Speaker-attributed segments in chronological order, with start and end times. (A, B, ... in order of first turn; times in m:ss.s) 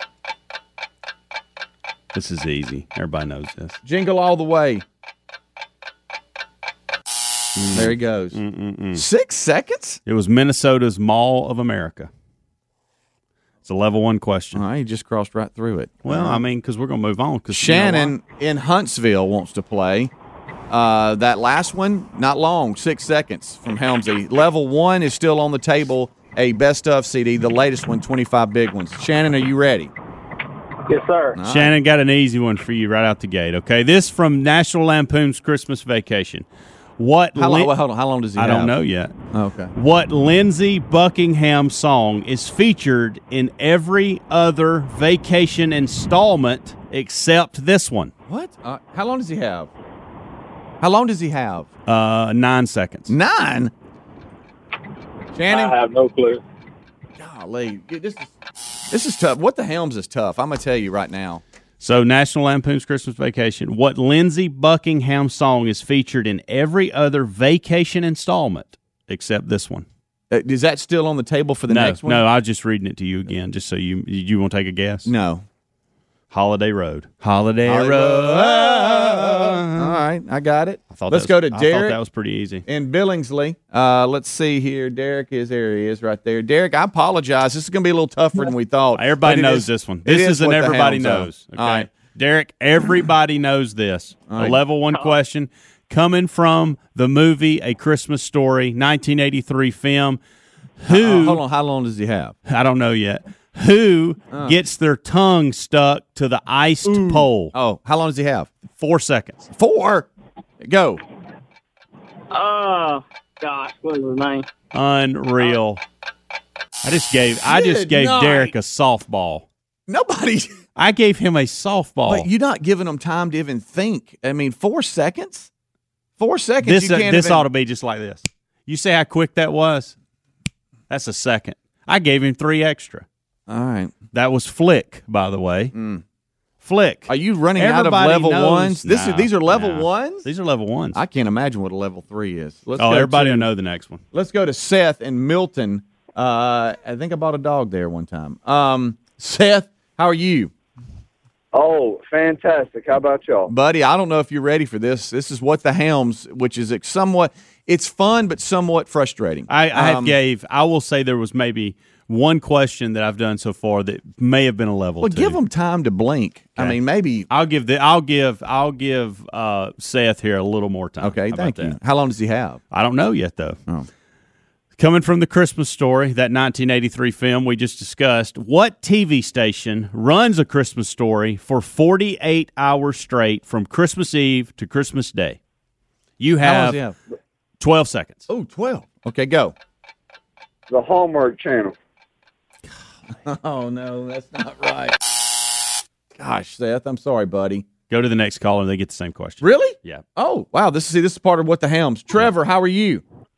0:02.1-0:03.8 A
0:03.8-0:04.8 B
0:07.6-0:09.0 A
0:07.7-0:08.4 B
0:08.9-0:10.0 B
0:10.0-0:12.1 A
0:13.6-0:14.6 A
0:14.5-0:16.4 B
0:16.0-0:18.1 A
0:17.5-0:20.1 B
0:20.7-0:29.9 B
0:30.9-0:31.4 C
0:31.3-0:31.7 B
0:31.4-0:36.4 A
0:37.0-0:37.7 A
0:37.4-0:38.7 B
0:38.4-0:39.2 A
0:39.3-0:39.7 B
0:39.7-0:48.1 A
0:48.3-0:49.7 B
0:50.8-0:51.7 B
0:51.9-0:53.1 A
0:53.1-0:53.7 B
0:55.3-0:55.8 B
0:55.5-0:56.4 C
0:57.2-0:58.3 B
0:58.9-1:01.4 B
1:01.8-1:09.8 A
1:10.3-1:12.2 B
1:11.7-1:15.1 A
1:15.0-1:15.4 B
1:16.3-1:20.0 A
1:17.6-1:22.0 B
1:20.9-1:22.6 A
1:22.6-1:31.9 B
1:28.9-1:40.2 A
1:34.3-1:34.6 B
1:40.8-1:41.4 A
1:40.9-1:42.3 B
1:42.5-1:47.5 A
1:44.3-1:44.6 B
1:46.8-1:48.5 B
1:48.8-1:49.5 A
1:49.6-1:50.1 B
1:50.6-1:51.0 B
1:52.3-1:54.4 C
1:54.7-1:55.8 A
1:56.8-1:59.5 A
1:57.5-1:58.5 B
1:59.9-2:00.5 B
2:00.8-2:02.3 A
2:02.1-2:05.5 B
2:06.2-2:07.5 B
2:06.6-2:09.9 A
2:10.9-2:13.0 A
2:13.5-2:13.9 B
2:14.1-2:15.7 A
2:15.7-2:16.0 B
2:16.6-2:21.0 A
2:17.1-2:20.2 B
2:20.9-2:23.5 B
2:22.8-2:24.0 A
2:24.1-2:30.5 B
2:31.5-2:33.5 C
2:33.5-2:40.2 B
2:39.5-2:45.4 A
2:45.0-2:47.3 B
2:47.3-2:51.8 A
2:51.0-2:52.6 B
2:52.7-2:53.6 A
2:54.8-3:05.4 A
3:06.2-3:06.8 A
3:06.4-3:07.0 B
3:07.6-3:08.3 A
3:08.3-3:09.5 B
3:10.7-3:11.7 C
3:13.2-3:15.0 B
3:16.2-3:17.6 B
3:17.9-3:20.0 A
3:19.4-3:23.0 B